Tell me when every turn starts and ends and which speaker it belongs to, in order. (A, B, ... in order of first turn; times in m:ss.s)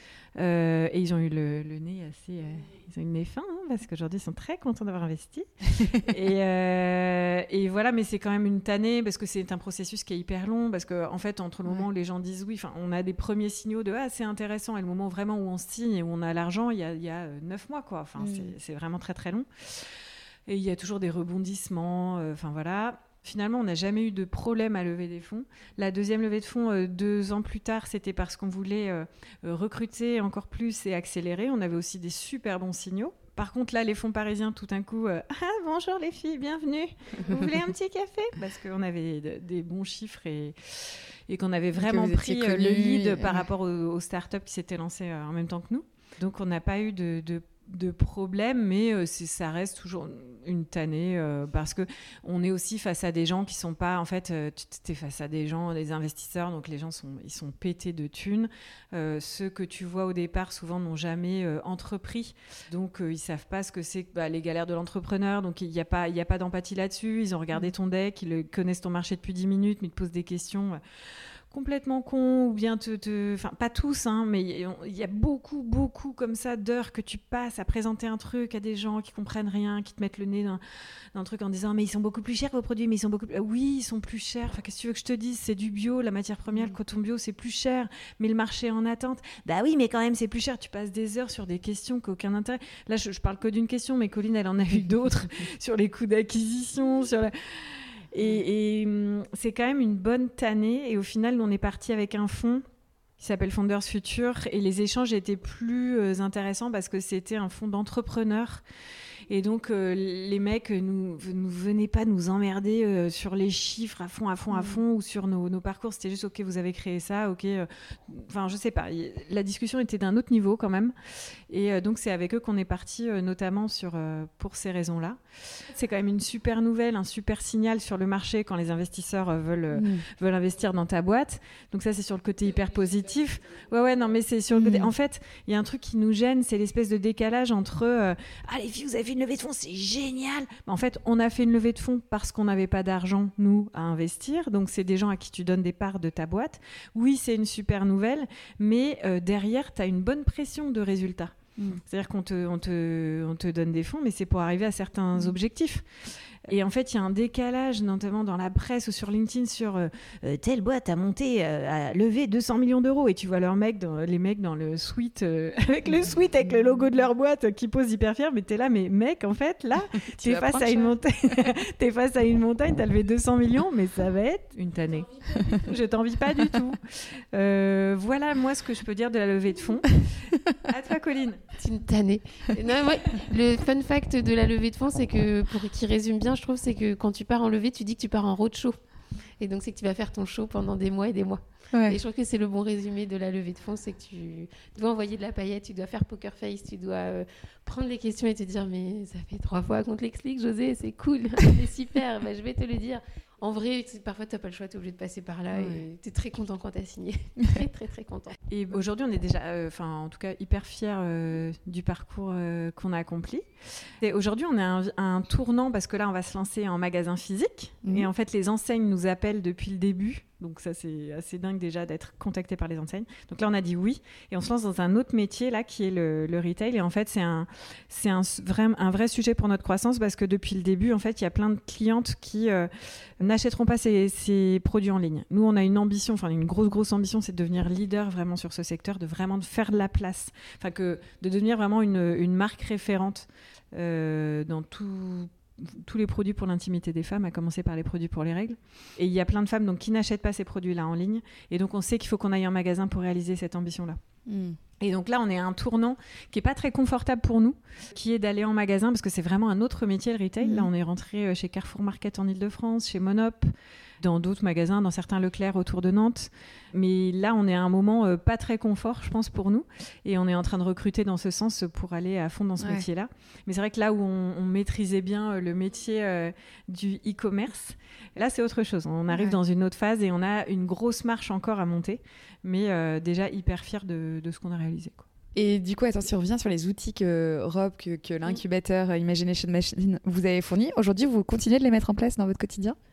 0:00.4-1:10.8 A
0:18.2-0:18.6 B
0:41.7-0:43.5 B
1:11.5-1:20.6 A
1:21.1-1:42.6 A
1:43.2-1:48.6 A
1:49.3-2:00.9 A
1:54.5-1:54.8 B
2:01.5-2:35.8 A
2:09.7-2:10.0 B
2:14.5-2:14.9 B
2:36.5-3:01.4 A
2:50.2-2:50.9 B
3:01.6-3:08.8 C
3:09.4-3:28.4 C
3:11.7-3:12.0 B
3:25.5-3:25.8 B
3:28.5-4:14.0 A
3:37.8-3:38.1 B
4:14.3-4:14.6 B
4:14.8-4:45.1 A
4:20.4-4:20.7 B
4:32.6-4:32.8 B
4:39.1-4:39.4 B
4:45.4-4:52.8 B